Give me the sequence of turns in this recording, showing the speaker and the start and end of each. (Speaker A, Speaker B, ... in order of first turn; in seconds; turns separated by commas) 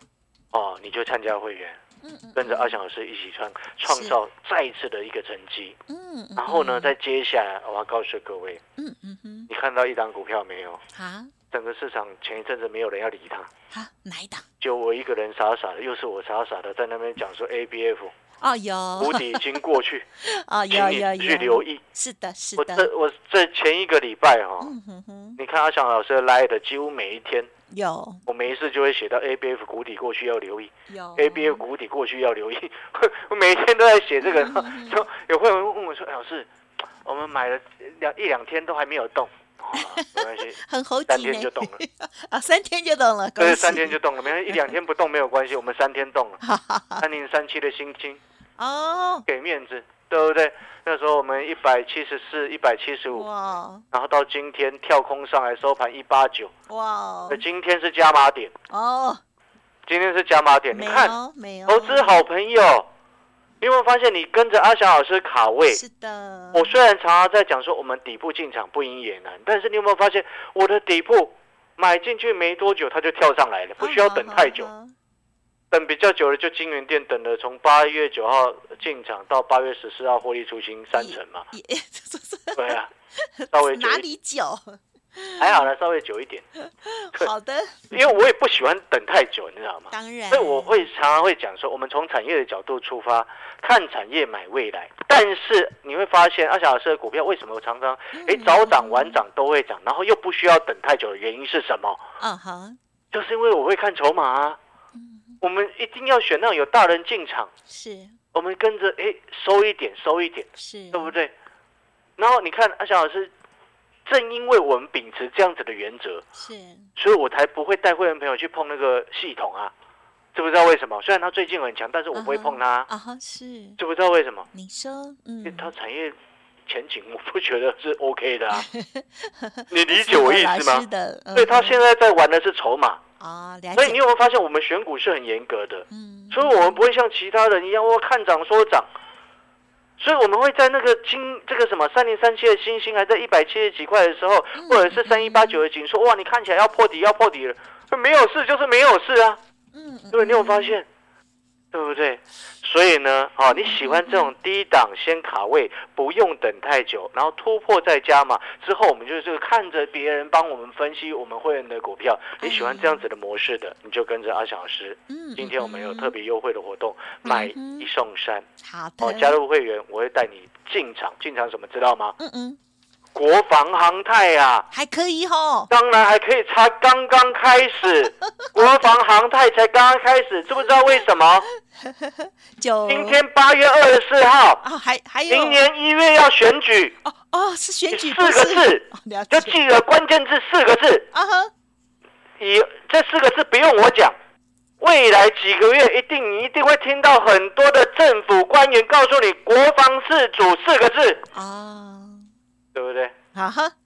Speaker A: 0.5-1.8, Speaker B: 2.0-2.8, Speaker A: 2.4-5.8, Speaker B: 3.9-4.2, Speaker B: 5.9-6.9, Speaker A: 6.4-8.6, Speaker B: 8.8-9.5, Speaker A: 9.5-10.8, Speaker B: 10.9-11.3, Speaker A: 11.5-13.5, Speaker B: 13.7-14.4, Speaker A: 14.6-18.1, Speaker B: 18.4-19.7, Speaker A: 19.0-20.1, Speaker B: 20.2-22.9, Speaker A: 20.7-21.8, Speaker A: 22.6-24.7, Speaker B: 24.6-25.4, Speaker A: 25.4-27.5, Speaker B: 27.7-28.2, Speaker A: 28.3-36.5, Speaker B: 30.9-31.6, Speaker B: 34.2-35.0, Speaker A: 37.0-41.8, Speaker B: 39.8-44.7, Speaker A: 43.4-46.4, Speaker B: 46.4-47.0, Speaker A: 47.0-48.2, Speaker B: 48.6-49.2, Speaker A: 49.3-53.3, Speaker B: 53.1-53.8, Speaker A: 53.9-56.5, Speaker B: 56.7-57.4, Speaker A: 57.3-58.5, Speaker B: 58.7-59.2, Speaker A: 59.9-61.1, Speaker B: 60.7-62.2, Speaker A: 61.7-62.9, Speaker A: 63.6-65.8, Speaker B: 65.7-66.8, Speaker A: 66.5-74.7, Speaker B: 73.8-74.9, Speaker A: 75.7-81.5, Speaker B: 81.0-85.7, Speaker A: 82.5-82.9, Speaker A: 83.5-84.0, Speaker A: 85.4-86.5, Speaker B: 86.6-88.0, Speaker A: 87.9-102.0, Speaker B: 89.9-90.9, Speaker B: 98.2-99.2, Speaker B: 102.2-102.8, Speaker A: 103.1-104.6, Speaker B: 105.0-105.3, Speaker A: 105.4-107.5, Speaker B: 107.7-108.2, Speaker A: 108.3-111.3, Speaker B: 110.6-111.1, Speaker A: 112.2-113.3, Speaker A: 114.1-116.2, Speaker B: 116.4-116.9, Speaker A: 117.0-119.7, Speaker A: 120.3-122.9, Speaker B: 122.1-123.8, Speaker A: 123.8-124.5, Speaker B: 124.5-125.7, Speaker A: 125.4-126.2, Speaker A: 126.7-128.7, Speaker B: 128.6-131.8, Speaker A: 129.7-133.0, Speaker B: 133.2-134.0, Speaker A: 133.8-138.9, Speaker B: 135.9-136.8, Speaker A: 140.0-149.4, Speaker B: 144.6-145.6, Speaker B: 149.7-150.8, Speaker A: 150.1-150.8, Speaker A: 151.7-168.5, Speaker B: 153.5-154.3, Speaker B: 162.4-163.1, Speaker B: 165.1-166.1, Speaker B: 167.2-167.9, Speaker B: 168.6-169.4, Speaker A: 169.0-172.2, Speaker B: 172.2-172.6, Speaker A: 173.1-174.7, Speaker B: 174.7-175.7, Speaker A: 175.7-181.5, Speaker B: 178.4-178.8, Speaker B: 181.8-183.2, Speaker A: 182.9-184.6, Speaker B: 184.6-185.6, Speaker A: 185.3-187.0, Speaker B: 187.1-189.6, Speaker A: 187.9-191.1, Speaker B: 191.1-191.5, Speaker A: 192.4-194.2, Speaker A: 194.8-201.3, Speaker B: 201.3-202.3, Speaker A: 202.8-203.2, Speaker B: 203.3-203.7